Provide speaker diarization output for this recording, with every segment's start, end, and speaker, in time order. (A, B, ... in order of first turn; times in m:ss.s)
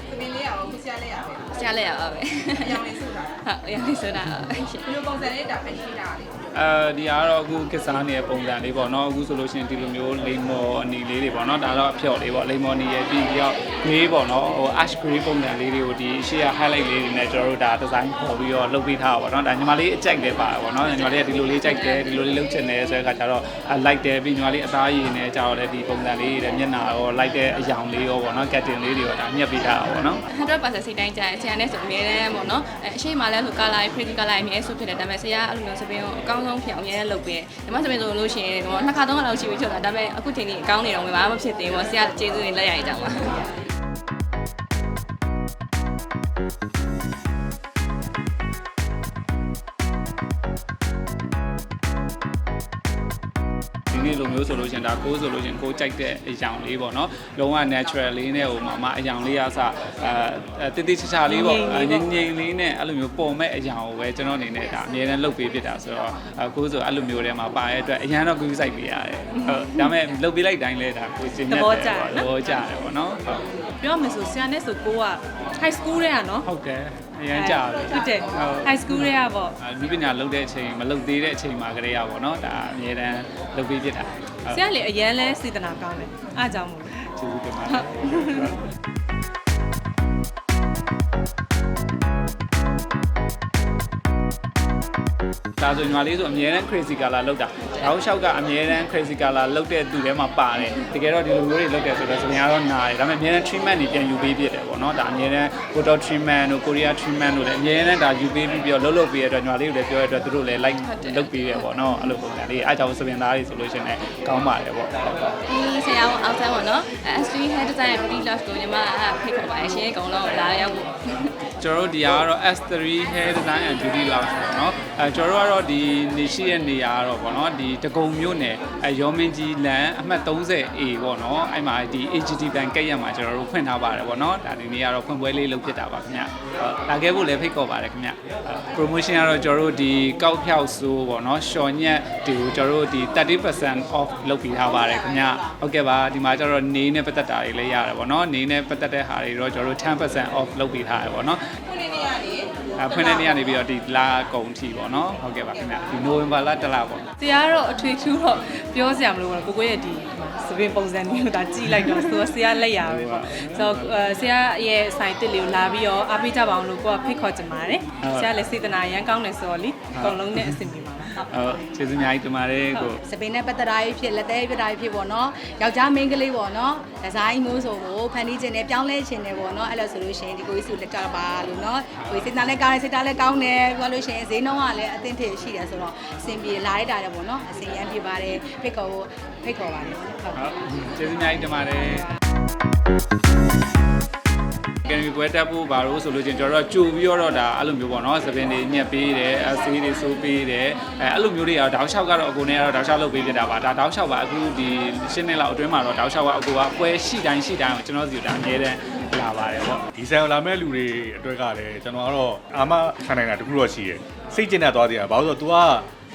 0:00.1-0:01.4 A
0:01.5-0:04.9 B
0:03.0-0:03.3 A
0:04.9-0:06.3 A
0:06.5-0:30.2 C
0:20.8-0:22.1 B
0:30.3-0:43.5 B
0:53.9-1:13.4 C
1:01.2-1:02.1 D
1:09.4-1:09.9 D
1:11.5-1:12.3 D
1:13.8-1:16.5 D
1:16.4-1:24.6 C
1:17.3-1:19.6 D
1:24.5-1:27.1 D
1:27.1-1:28.6 C
1:28.1-1:28.5 D
1:35.6-1:55.3 C
1:50.8-1:51.7 B
1:55.5-2:01.3 B
2:01.6-2:31.4 C
2:32.8-2:37.1 C
2:37.2-2:51.2 D
2:42.8-2:43.9 C
2:48.0-2:48.3 C
2:49.9-2:50.6 C
2:51.2-2:53.0 C
2:53.0-3:10.4 E
3:10.4-3:12.1 C
3:14.8-3:29.8 C
3:30.0-3:35.9 F